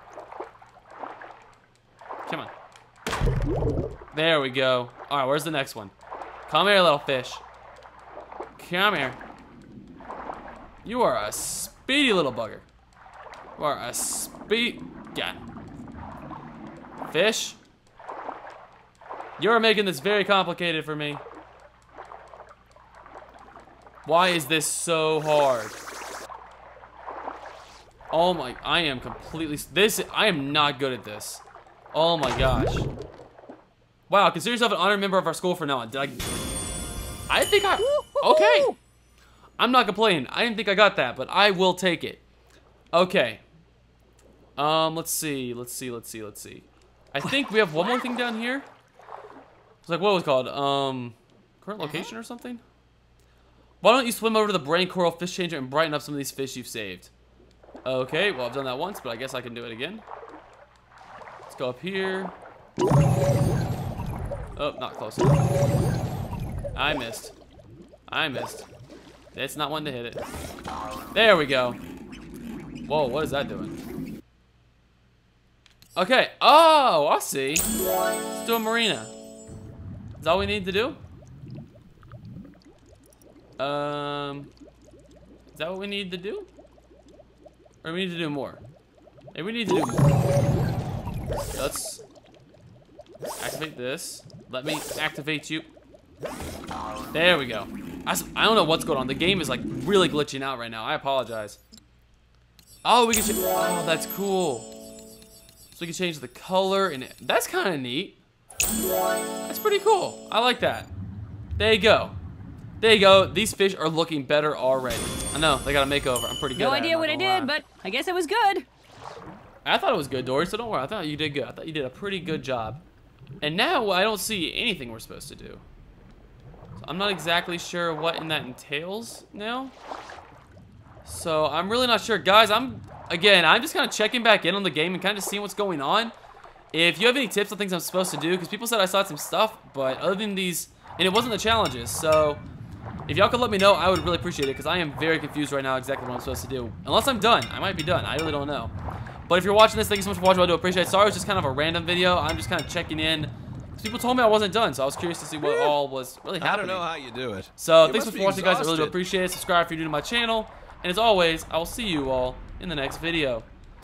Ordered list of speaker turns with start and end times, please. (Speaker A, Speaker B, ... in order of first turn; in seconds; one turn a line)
Speaker A: 2.3-2.5
Speaker A: 4.1-5.9
Speaker A: 6.5-7.4
Speaker A: 8.6-9.2
Speaker A: 10.8-12.7
Speaker A: 13.6-15.4
Speaker A: 17.0-17.6
Speaker A: 19.4-21.2
Speaker A: 24.0-25.8
Speaker A: 28.1-32.9
Speaker A: 34.1-36.2
Speaker A: 37.3-38.7
Speaker B: 37.9-38.8
Speaker A: 39.6-42.2
Speaker A: 42.9-43.4
Speaker A: 44.6-48.7
Speaker A: 49.8-52.6
Speaker A: 53.8-57.1
Speaker A: 57.9-60.0
Speaker A: 61.5-62.4
Speaker A: 64.6-65.5
Speaker A: 66.8-67.3
Speaker A: 68.1-68.7
Speaker A: 69.3-70.2
Speaker A: 71.1-71.8
Speaker A: 72.9-73.8
Speaker A: 76.0-77.7
Speaker A: 78.3-79.1
Speaker A: 80.2-81.0
Speaker A: 83.6-84.5
Speaker A: 85.5-86.5
Speaker A: 87.8-88.6
Speaker A: 89.3-90.1
Speaker A: 91.5-92.0
Speaker A: 93.4-95.7
Speaker A: 97.1-101.6
Speaker A: 102.8-104.7
Speaker A: 105.7-108.2
Speaker A: 109.5-110.9
Speaker A: 111.6-112.2
Speaker A: 112.8-117.5
Speaker B: 116.6-118.7
Speaker A: 119.7-122.8
Speaker A: 123.4-125.6
Speaker A: 126.8-129.8
Speaker A: 131.0-136.1
Speaker A: 136.7-142.4
Speaker A: 143.1-148.7
Speaker A: 149.3-156.9
Speaker C: 156.4-159.0
Speaker A: 157.6-163.5